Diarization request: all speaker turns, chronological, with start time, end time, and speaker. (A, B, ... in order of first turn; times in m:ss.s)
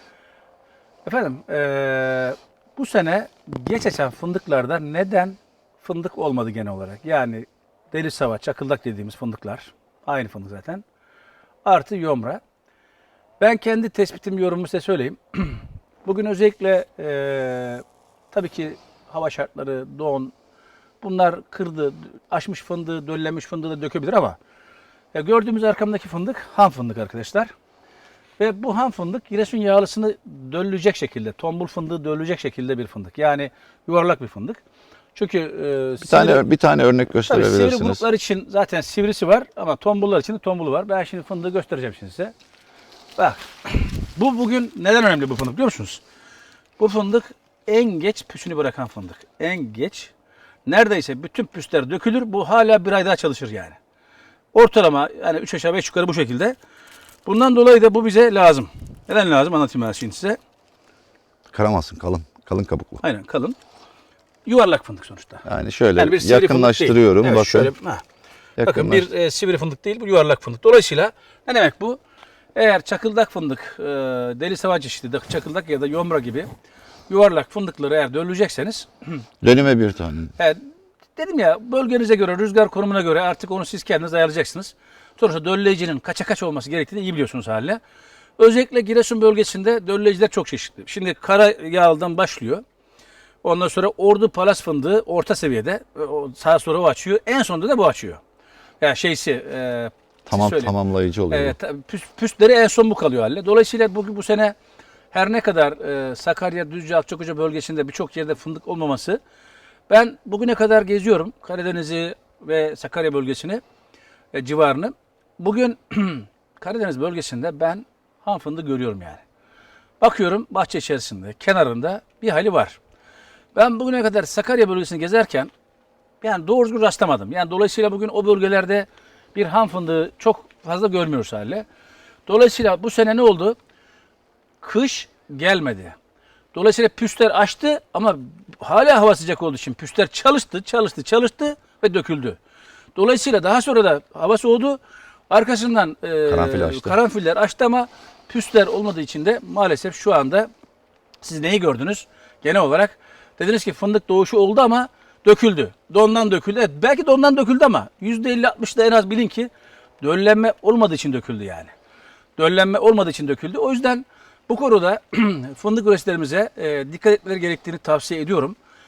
0:01.0-0:10.8 A
0:11.6-0:12.4 A
0:13.4-0:20.3 A
0:21.0-0:24.4 A
0:25.1-0:27.5 A
0:28.4-0:34.6 A
0:35.2-0:36.4 A
0:36.0-0:38.0 B
0:37.3-0:42.3 A
0:43.2-0:46.0 A
0:46.8-0:50.1 A
0:50.7-0:53.8 A
0:54.5-0:56.6 A
0:57.2-1:00.4 A
1:01.5-1:03.0 B
1:03.0-1:03.6 A
1:04.4-1:05.4 A
1:05.4-1:07.7 B
1:06.0-1:08.0 A
1:08.6-1:09.1 B
1:08.6-1:12.0 A
1:12.6-1:16.5 A
1:17.1-1:18.9 A
1:19.4-1:20.3 B
1:20.4-1:20.6 A
1:21.2-1:27.8 A
1:28.4-1:32.6 A
1:33.4-1:38.2 A
1:38.8-1:40.7 A
1:40.3-1:41.6 B
1:41.3-1:44.6 A
1:45.1-1:49.2 A
1:49.9-1:53.6 A
1:54.3-1:59.2 A
2:00.0-2:02.8 A
2:03.6-2:05.5 A
2:06.2-2:11.6 A
2:12.3-2:13.6 A
2:14.6-2:16.0 A
2:16.5-2:22.4 A
2:23.0-2:24.8 A
2:25.3-2:30.5 A
2:26.3-2:27.0 B
2:31.2-2:41.7 A
2:42.4-2:48.6 A